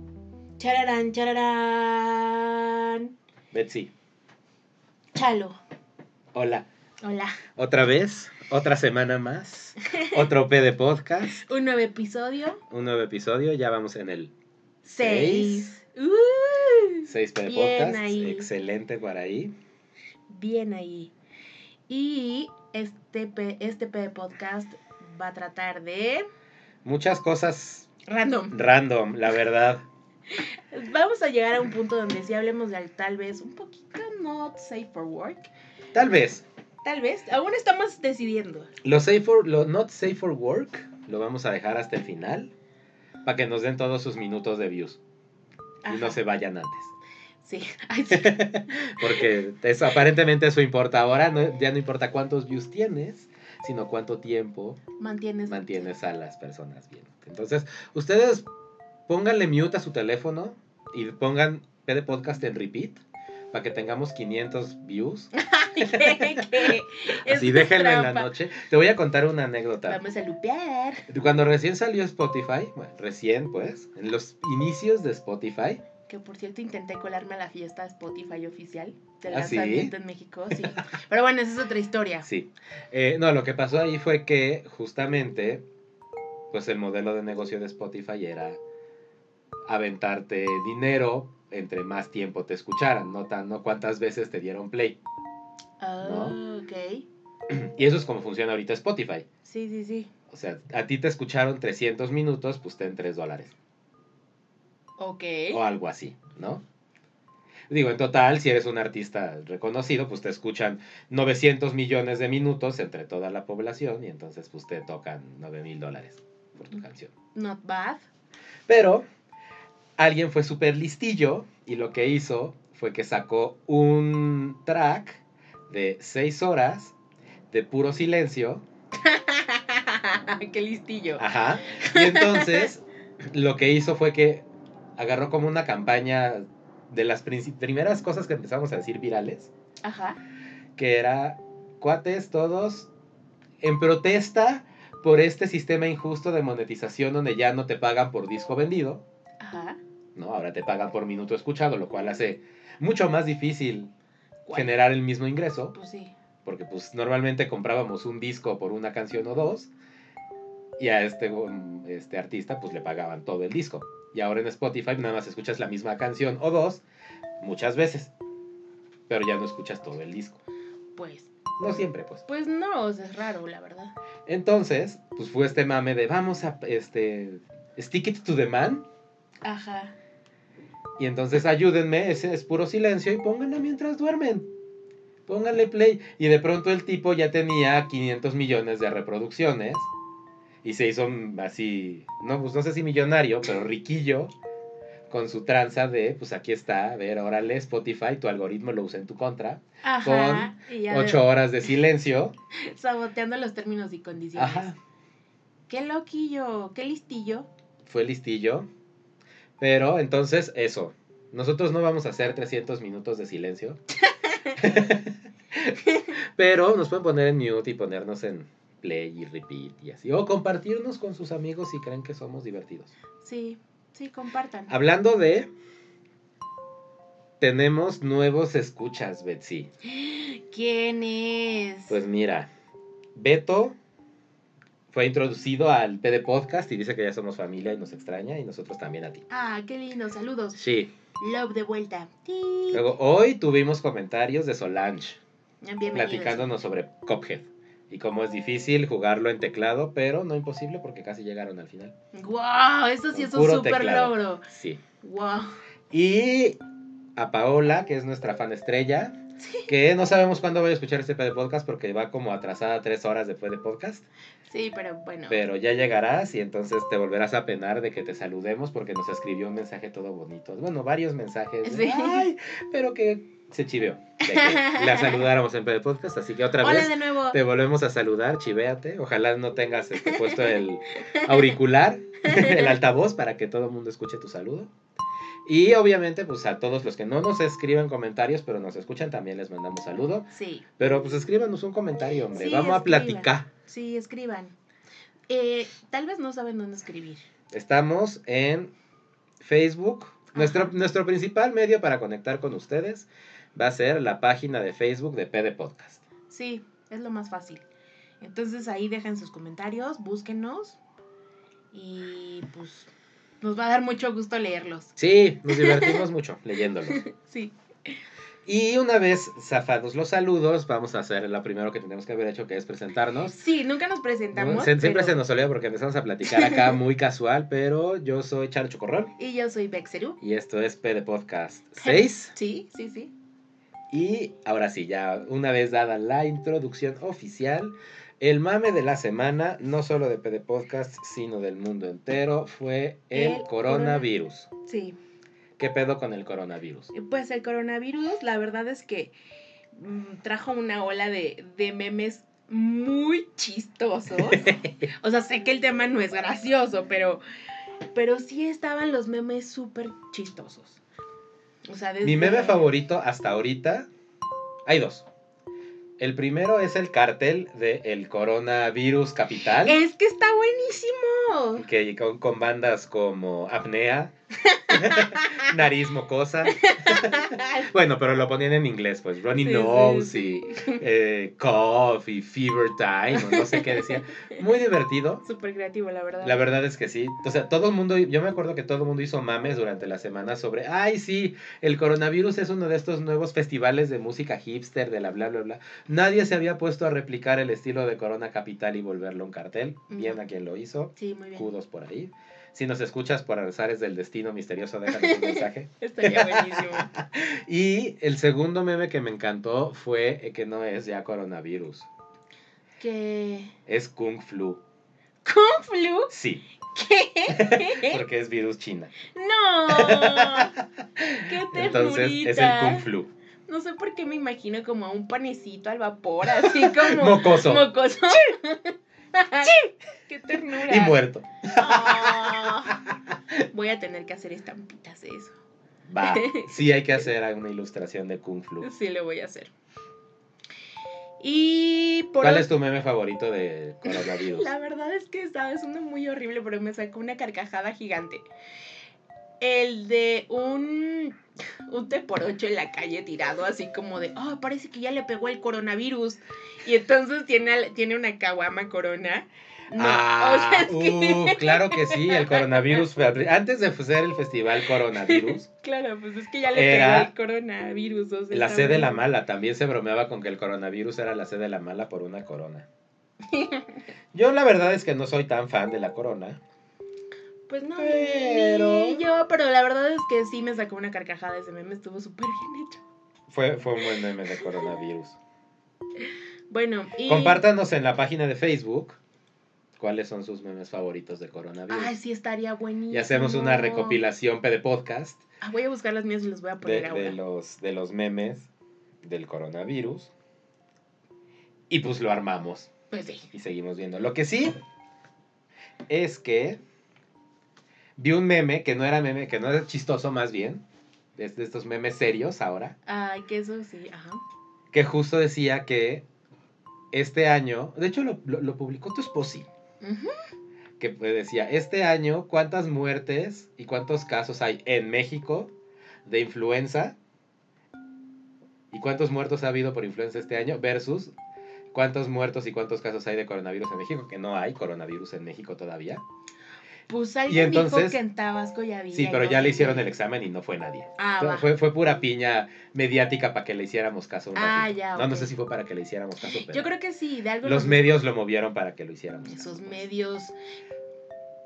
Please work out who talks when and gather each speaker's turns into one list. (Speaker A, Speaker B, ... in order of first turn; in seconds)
Speaker A: 0.6-3.1, 5.1-5.6, 7.0-7.4, 11.4-12.6, 14.8-18.5, 20.3-21.1, 21.9-26.3, 28.1-28.5, 30.3-35.5, 36.8-38.7, 45.8-46.2, 47.4-49.3, 55.0-55.9, 65.3-68.3, 69.8-71.1, 76.1-82.3, 95.8-97.0, 99.4-100.1, 105.0-105.6, 117.3-118.0, 129.0-132.7, 139.8-140.2, 149.4-149.8, 154.4-154.8, 155.7-156.1, 171.0-171.3, 172.3-173.9, 179.4-179.9, 199.8-201.2, 202.6-204.7, 205.7-207.5, 214.0-214.6, 223.2-224.7, 229.8-232.0, 239.3-240.6, 241.2-242.9, 245.6-246.5, 252.1-254.4, 255.0-255.5, 259.4-259.7, 264.5-265.4, 271.6-272.2, 274.2-275.2, 276.6-277.4, 280.1-281.3, 282.2-282.7, 290.3-290.6, 292.3-294.5, 295.3-297.2, 300.3-300.7, 306.3-307.6, 308.2-310.8, 311.7-312.9, 313.4-314.9, 315.5-316.0, 316.9-317.9, 323.3-325.1, 326.3-326.7, 329.2-330.2, 331.8-333.1, 343.1-344.1, 344.6-344.9, 346.9-349.1, 349.7-357.2, 357.9-360.8, 361.7-362.7, 369.6-371.6, 374.4-375.5, 376.6-377.7, 379.4-380.8, 383.1-384.0, 385.2-386.4, 399.9-400.2, 400.9-401.5, 404.9-406.9, 412.8-413.5, 415.2-416.1, 416.7-418.0, 419.1-420.5, 421.1-422.8, 423.5-431.0, 431.5-432.8, 433.5-435.4, 436.0-437.0, 438.6-439.5, 441.2-442.5, 443.8-448.2, 449.4-462.8, 464.9-469.1, 473.3-473.8, 477.5-482.8, 486.0-487.4, 491.7-494.0, 495.4-497.2, 502.9-503.3, 512.9-514.2, 519.8-520.1, 536.9-539.9, 541.0-541.5, 544.3-545.3, 546.3-547.9, 549.3-550.3
Speaker B: 3.5-3.9, 6.3-6.7, 7.6-11.4, 12.7-14.3, 14.8-15.7, 17.1-19.5, 26.8-27.9, 28.5-29.8, 35.9-36.4, 38.8-42.5, 43.2-45.0, 45.9-46.9, 48.1-54.8, 55.5-58.5, 59.1-63.0, 63.5-70.0, 71.1-75.8, 79.3-79.9, 82.2-85.6, 86.5-88.6, 89.7-95.0, 96.0-96.4, 97.5-99.2, 100.3-103.5, 105.5-106.6, 107.7-117.1, 118.7-119.0, 120.0-126.9, 127.5-128.6, 131.2-134.4, 135.0-139.5, 140.8-142.9, 143.6-149.0, 150.1-153.9, 154.5-155.7, 156.4-159.7, 160.8-166.8, 167.4-168.1, 169.1-170.4, 171.6-172.2, 174.2-178.8, 181.0-184.5, 185.3-189.9, 190.6-194.3, 195.1-202.3, 204.3-204.8, 207.8-208.7, 209.6-213.8, 214.6-215.8, 216.3-222.9, 224.7-225.5, 227.4-229.7, 231.9-232.5, 233.1-233.8, 234.9-239.2, 240.5-240.9, 242.7-245.2, 245.9-251.9, 253.1-254.8, 255.9-256.6, 257.1-259.2, 259.7-264.0, 265.3-284.7, 285.4-293.5, 297.5-298.7, 299.4-306.0, 315.0-317.0, 318.4-323.4, 324.3-329.1, 330.2-332.3, 333.9-344.5, 345.6-346.9, 354.3-354.6, 362.0-363.9, 364.6-365.1, 366.0-369.8, 371.6-374.1, 374.7-385.2, 386.2-411.9, 413.6-414.6, 416.1-416.4, 417.3-418.9, 419.7-423.1, 426.2-427.7, 430.5-432.9, 435.9-438.7, 442.2-444.5, 459.8-465.5, 466.5-467.1, 468.3-472.6, 474.1-476.4, 477.8-479.1, 483.3-485.2, 487.1-489.0, 489.8-491.9, 492.9-495.2, 496.6-498.5, 499.0-500.1, 501.7-502.7, 503.3-504.6, 505.9-506.6, 508.0-510.6, 511.1-512.7, 514.7-516.0, 516.9-519.5, 520.8-525.5, 526.0-527.0, 528.7-531.1, 531.7-536.0, 537.3-538.0, 538.9-546.7, 547.4-549.9